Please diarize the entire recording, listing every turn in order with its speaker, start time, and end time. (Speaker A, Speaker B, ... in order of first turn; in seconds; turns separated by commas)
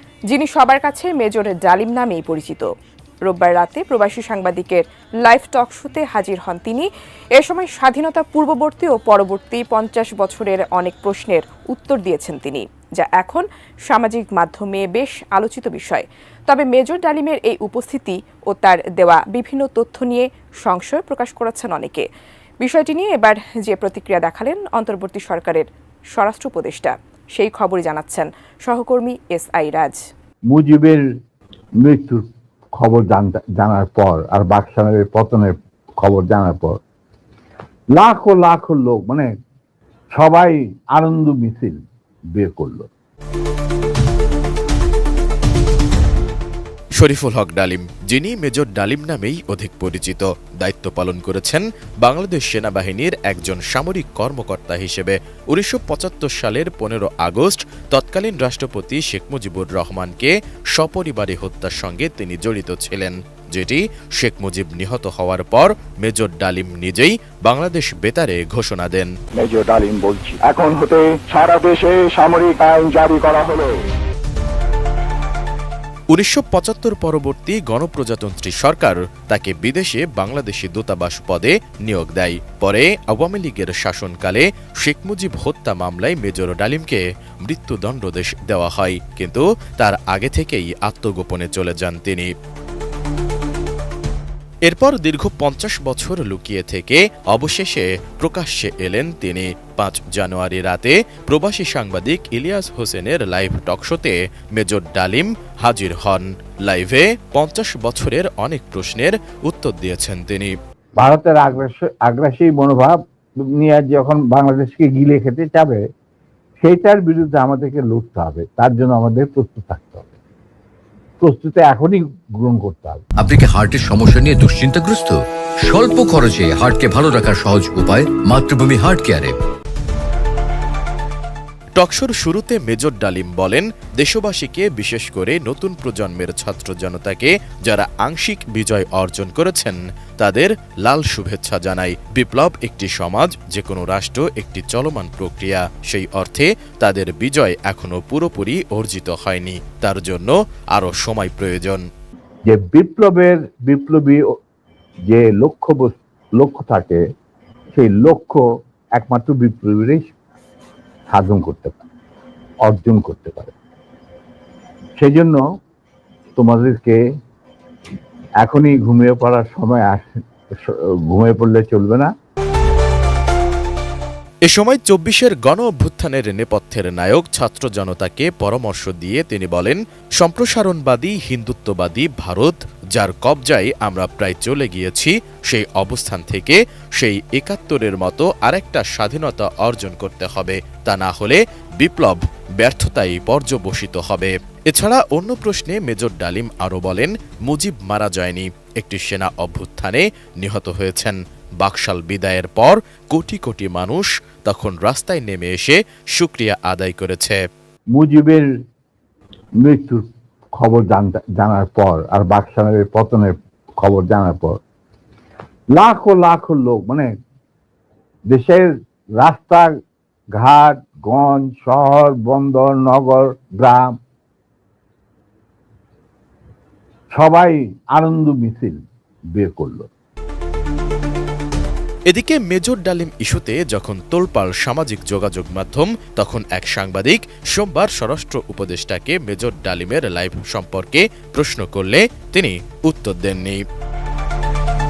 Speaker A: 0.3-2.7, Speaker A: 3.2-22.1, Speaker A: 22.6-30.0, Speaker B: 30.5-31.0, Speaker B: 31.8-32.2, Speaker B: 32.8-36.8, Speaker B: 37.9-39.3, Speaker B: 40.1-41.8, Speaker B: 42.4-42.9, Speaker C: 47.0-69.1, Speaker D: 69.4-73.8, Speaker C: 76.1-92.3, Speaker C: 94.7-110.5, Speaker B: 111.0-113.0, Speaker B: 113.5-115.8, Speaker B: 116.6-120.1, Speaker B: 121.2-123.0, Speaker E: 123.2-129.4, Speaker C: 131.8-151.8, Speaker B: 152.5-154.2, Speaker B: 155.1-157.0, Speaker B: 157.8-158.4, Speaker B: 159.0-160.1, Speaker B: 161.1-161.8, Speaker B: 162.7-163.5, Speaker B: 165.0-165.4, Speaker B: 166.4-167.0, Speaker B: 168.4-170.1, Speaker B: 170.7-172.1, Speaker C: 174.5-207.4, Speaker B: 207.9-208.5, Speaker B: 209.6-210.1, Speaker B: 210.6-214.6, Speaker B: 215.7-217.1, Speaker B: 218.3-219.7, Speaker B: 220.3-224.0, Speaker B: 227.1-228.8, Speaker B: 229.3-229.9, Speaker C: 232.1-243.6